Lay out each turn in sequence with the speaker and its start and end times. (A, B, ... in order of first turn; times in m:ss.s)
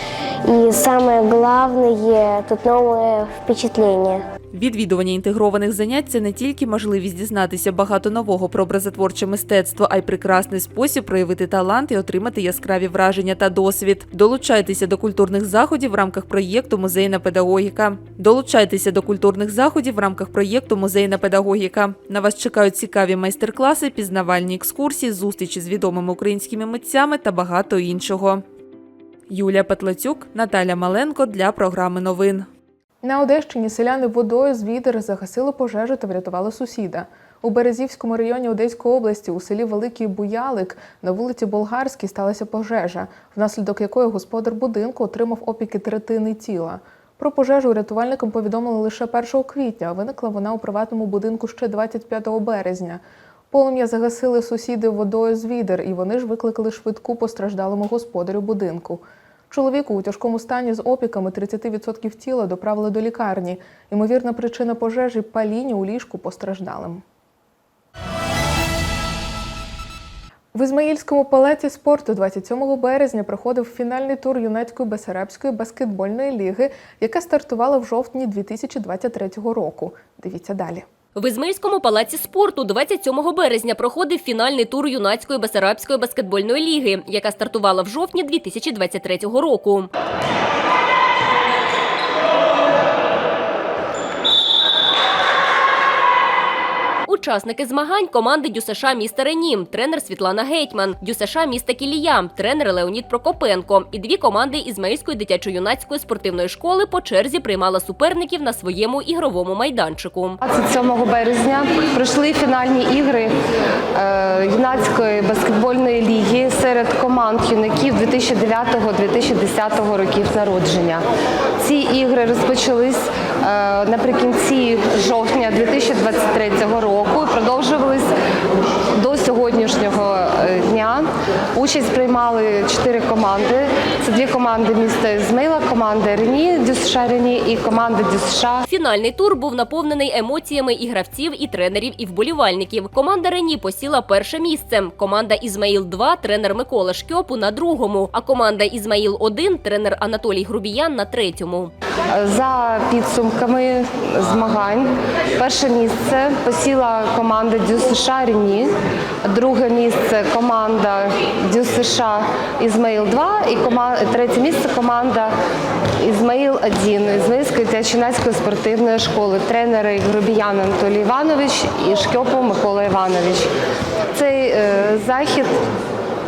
0:00.5-0:04.2 A
0:04.5-0:28.4 B
0:29.3-0:32.5 B
0:33.0-1:07.0 C
1:10.5-1:20.8 C
1:21.2-1:29.9 D
1:37.1-1:50.4 D
1:50.4-1:53.4 E
1:53.9-2:01.0 E
2:01.6-2:08.1 E
2:08.9-2:18.6 E
2:18.7-2:31.7 D
2:32.1-2:45.4 E
2:46.0-2:53.5 E
2:54.1-2:55.6 E